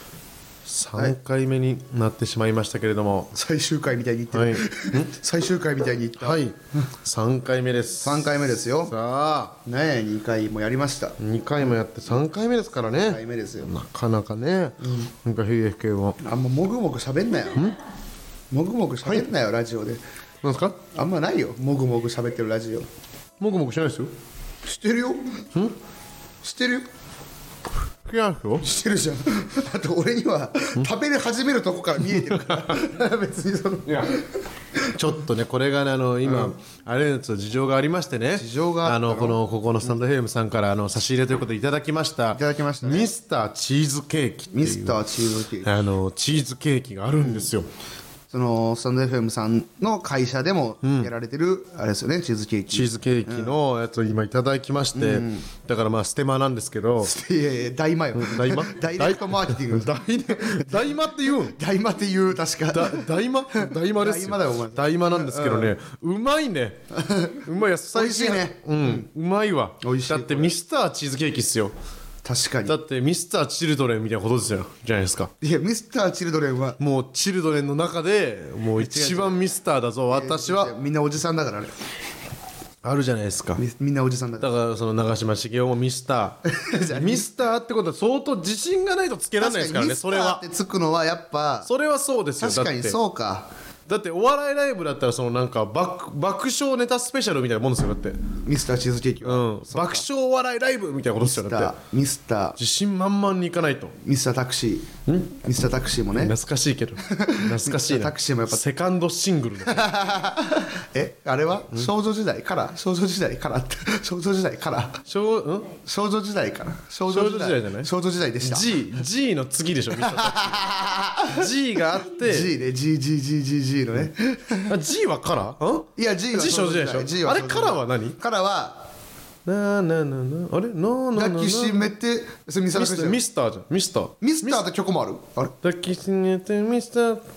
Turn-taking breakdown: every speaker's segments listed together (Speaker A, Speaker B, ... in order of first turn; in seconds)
Speaker A: 0.7-3.3, 4.3-5.1, 6.2-8.3, 8.8-9.5, 11.2-16.2, 20.4-20.8, 23.4-24.1, 28.1-28.7, 32.1-32.8, 33.9-34.1, 34.9-45.0, 45.6-47.7, 50.8-51.1, 52.7-57.1, 58.1-61.6, 62.7-66.8, 67.4-71.7, 72.7-75.3, 76.8-80.7, 82.8-83.6, 84.4-90.4, 91.6-93.0, 93.9-98.2, 99.2-101.7, 102.6-103.9, 105.1-105.3, 106.1-109.9, 115.1-115.7, 117.1-117.9, 118.4-120.7, 121.3-122.5, 124.7-128.2, 129.4-131.9, 132.7-134.6, 135.6-137.2
Speaker B: 3.3-6.4, 8.0-8.9, 9.7-11.2, 12.9-13.7, 14.8-15.1, 16.2-17.7, 18.5-20.0, 20.9-22.9, 24.6-25.4, 26.4-26.9, 28.6-34.3, 36.2-36.5, 38.4-39.4, 42.3-43.1, 44.5-45.7, 48.3-53.5, 54.9-55.4, 57.0-60.9, 61.4-65.7, 66.9-69.0, 69.8-70.5, 72.2-72.7, 75.4-76.8, 78.8-79.4, 80.1-81.7, 83.5-84.5, 86.5-87.3, 89.4-91.7, 92.4-93.5, 98.4-100.0, 101.2-102.6, 104.0-104.9, 105.4-106.3, 107.0-108.6, 109.7-115.0, 115.8-118.8, 120.0-121.5, 122.1-124.7, 126.0-128.8, 131.1-133.2, 134.2-135.5